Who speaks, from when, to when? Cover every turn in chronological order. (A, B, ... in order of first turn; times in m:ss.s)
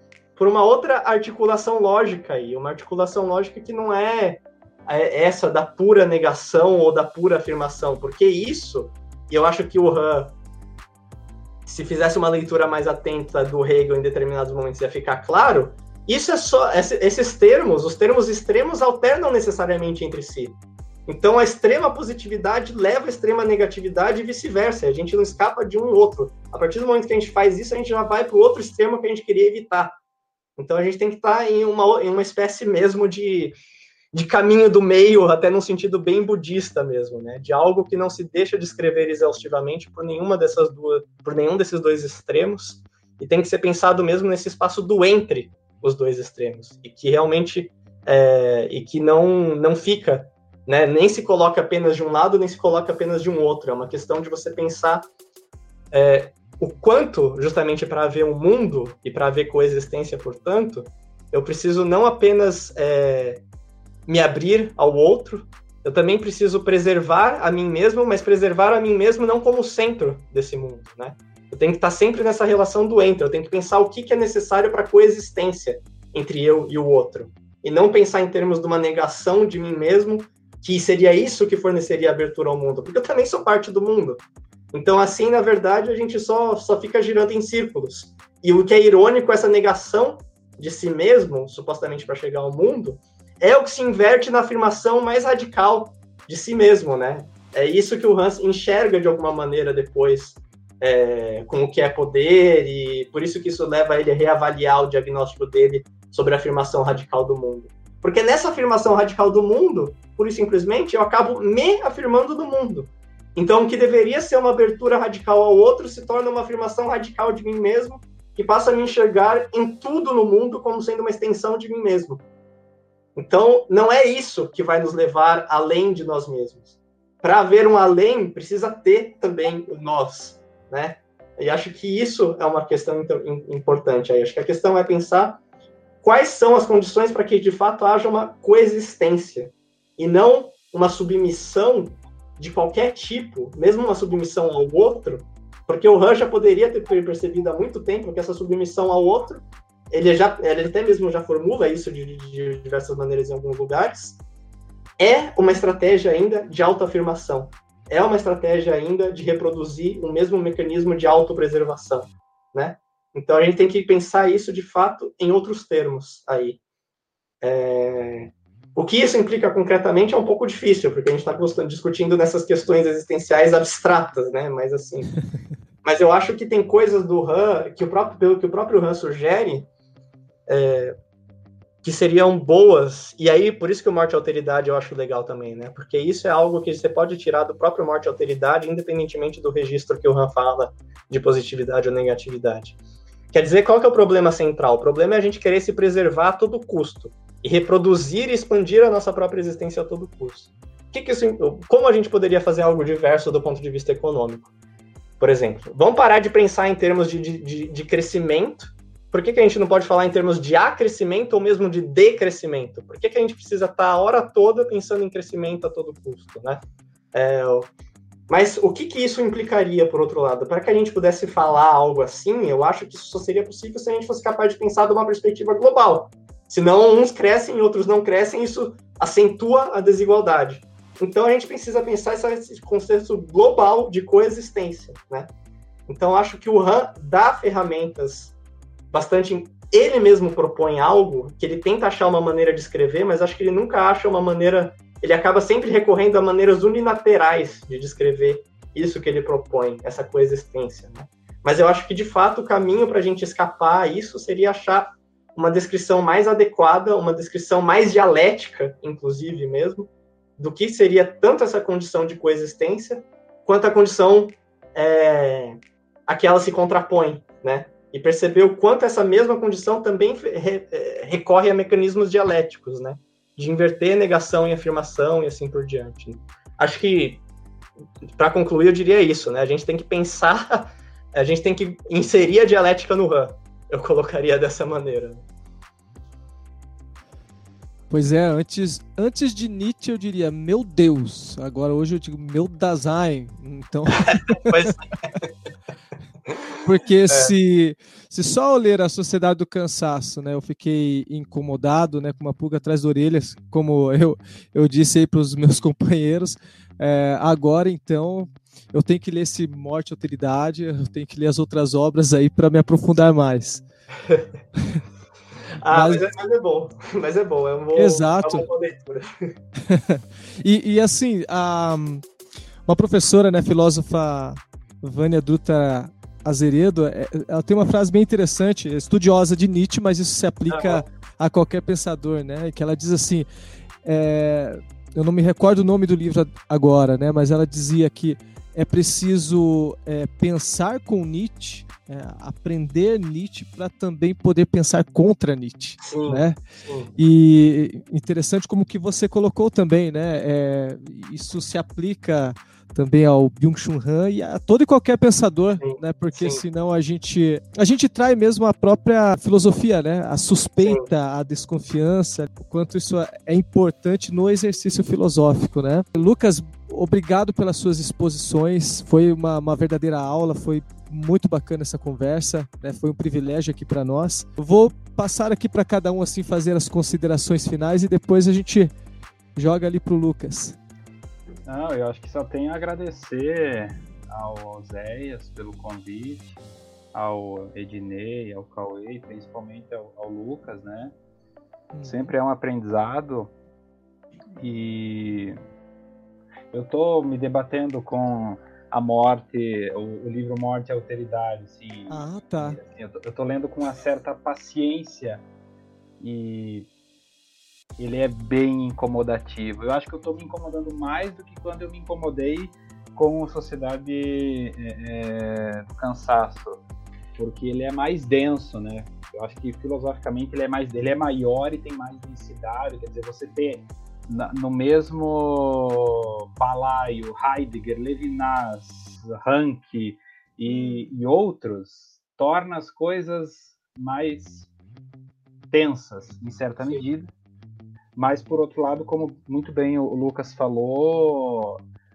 0:00.4-0:10.3 A
0:11.6-0:30.0 A
0:30.6-0:33.6 A
0:34.1-0:55.0 A
0:55.9-1:03.4 A
1:04.1-2:02.2 A
2:03.1-2:15.4 A
2:16.0-2:34.2 A
2:35.0-2:46.6 A
2:47.4-2:55.1 A
2:55.8-2:59.7 A
3:00.5-3:00.9 A
3:01.8-3:12.8 A
3:13.3-3:24.5 A
3:25.2-3:36.6 A
3:37.1-3:37.7 A
3:38.3-3:55.3 A
3:55.9-3:58.3 A
3:58.9-4:37.2 A
4:38.1-4:45.2 A
4:47.9-4:54.7 B
4:54.1-4:55.3 A
4:56.6-5:13.6 B
5:14.6-5:14.8 B
5:15.6-5:19.3 A
5:15.7-5:16.0 B
5:17.8-5:18.4 B
5:19.7-5:22.0 B
5:22.7-5:33.3 B
5:30.5-5:30.8 A
5:33.8-5:46.4 B
5:45.8-5:46.9 A
5:47.0-6:18.7 B
5:55.6-5:56.4 A
6:19.3-6:20.6 B
6:21.5-6:30.9 C
6:31.7-6:32.1 B
6:31.8-6:33.3 C
6:34.4-6:35.4 C
6:36.5-6:45.2 C
6:41.9-6:42.6 B
6:46.0-6:46.7 C
6:47.8-6:56.6 C
6:57.2-7:14.5 C
7:15.5-7:17.1 C
7:18.0-7:21.6 C